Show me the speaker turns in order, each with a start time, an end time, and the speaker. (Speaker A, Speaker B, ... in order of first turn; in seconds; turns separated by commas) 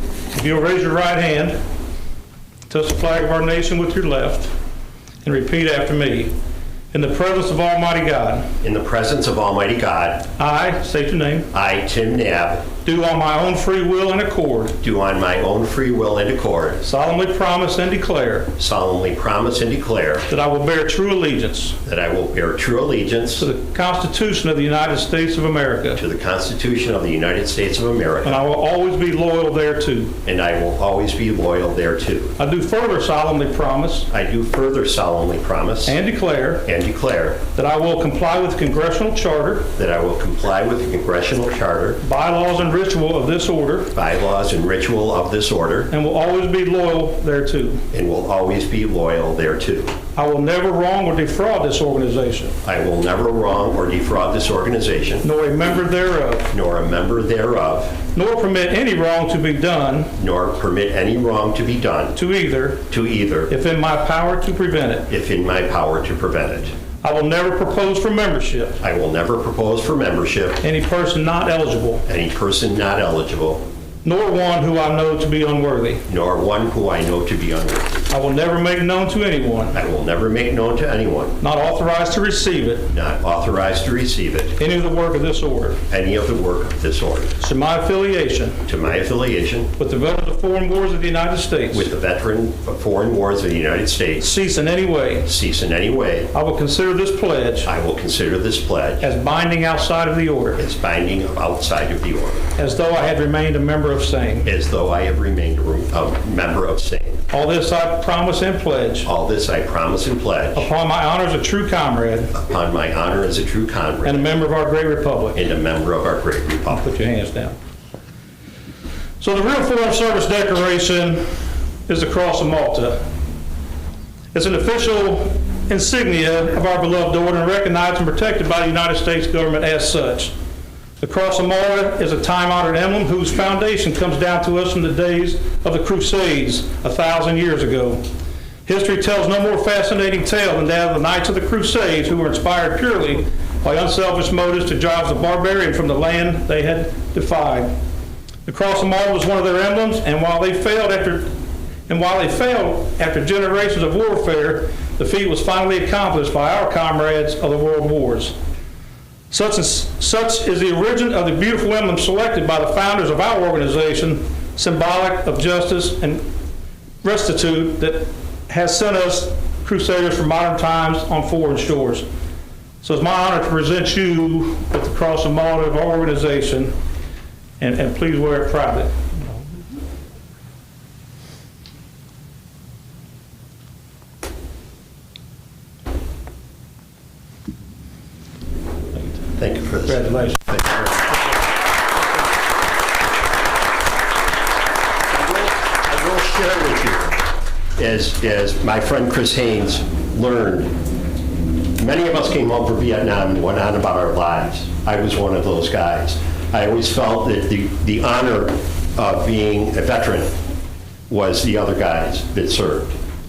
Speaker A: 0.3-1.6, Speaker A: 2.7-4.5, Speaker A: 5.2-6.3, Speaker A: 6.9-8.5, Speaker B: 8.6-10.3, Speaker A: 10.4-11.5, Speaker B: 11.5-12.7, Speaker A: 12.8-14.8, Speaker B: 14.8-16.8, Speaker A: 16.8-18.5, Speaker B: 18.6-20.3, Speaker A: 20.3-21.8, Speaker B: 21.8-23.5, Speaker A: 23.4-26.0, Speaker B: 26.0-28.4, Speaker A: 28.2-30.1, Speaker B: 30.2-32.3, Speaker A: 32.4-34.1, Speaker B: 34.1-36.0, Speaker A: 35.9-36.7, Speaker B: 36.6-37.4, Speaker A: 37.5-39.7, Speaker B: 39.8-42.0, Speaker A: 42.0-43.9, Speaker B: 43.9-45.9, Speaker A: 45.9-47.8, Speaker B: 47.9-49.9, Speaker A: 50.1-52.5, Speaker B: 52.6-55.2, Speaker A: 55.2-56.5, Speaker B: 56.5-58.0, Speaker A: 58.1-60.1, Speaker B: 60.2-62.2, Speaker A: 62.1-62.8, Speaker B: 62.9-63.5, Speaker A: 63.5-65.1, Speaker B: 65.1-66.7, Speaker A: 67.0-68.8, Speaker B: 68.8-70.6, Speaker A: 70.6-72.0, Speaker B: 72.0-73.6, Speaker A: 74.0-76.0, Speaker B: 76.1-78.0, Speaker A: 78.1-79.8, Speaker B: 79.7-81.4, Speaker A: 81.4-82.9, Speaker B: 82.9-84.6, Speaker A: 84.6-85.8, Speaker B: 85.9-87.3, Speaker A: 87.4-88.6, Speaker B: 88.7-89.7, Speaker A: 89.8-91.9, Speaker B: 91.7-94.3, Speaker A: 94.2-95.3, Speaker B: 95.2-96.3, Speaker A: 96.3-97.7, Speaker B: 97.6-99.1, Speaker A: 99.0-100.6, Speaker B: 100.6-102.4, Speaker A: 102.6-104.5, Speaker B: 104.4-107.2, Speaker A: 107.3-109.1, Speaker B: 109.0-110.7, Speaker A: 110.5-112.3, Speaker B: 112.3-114.3, Speaker A: 114.0-115.4, Speaker B: 115.3-116.9, Speaker A: 116.7-117.5, Speaker A: 119.2-121.2, Speaker A: 121.9-123.0, Speaker A: 124.3-130.3, Speaker A: 131.0-138.0, Speaker A: 138.7-147.7, Speaker A: 148.4-151.3, Speaker A: 151.9-158.3, Speaker A: 159.3-166.2, Speaker A: 167.0-172.0, Speaker A: 172.8-176.7, Speaker A: 177.6-179.4, Speaker B: 189.4-191.2, Speaker A: 189.9-190.4, Speaker B: 195.1-197.2, Speaker B: 197.8-200.7, Speaker B: 201.8-210.3, Speaker B: 211.1-212.9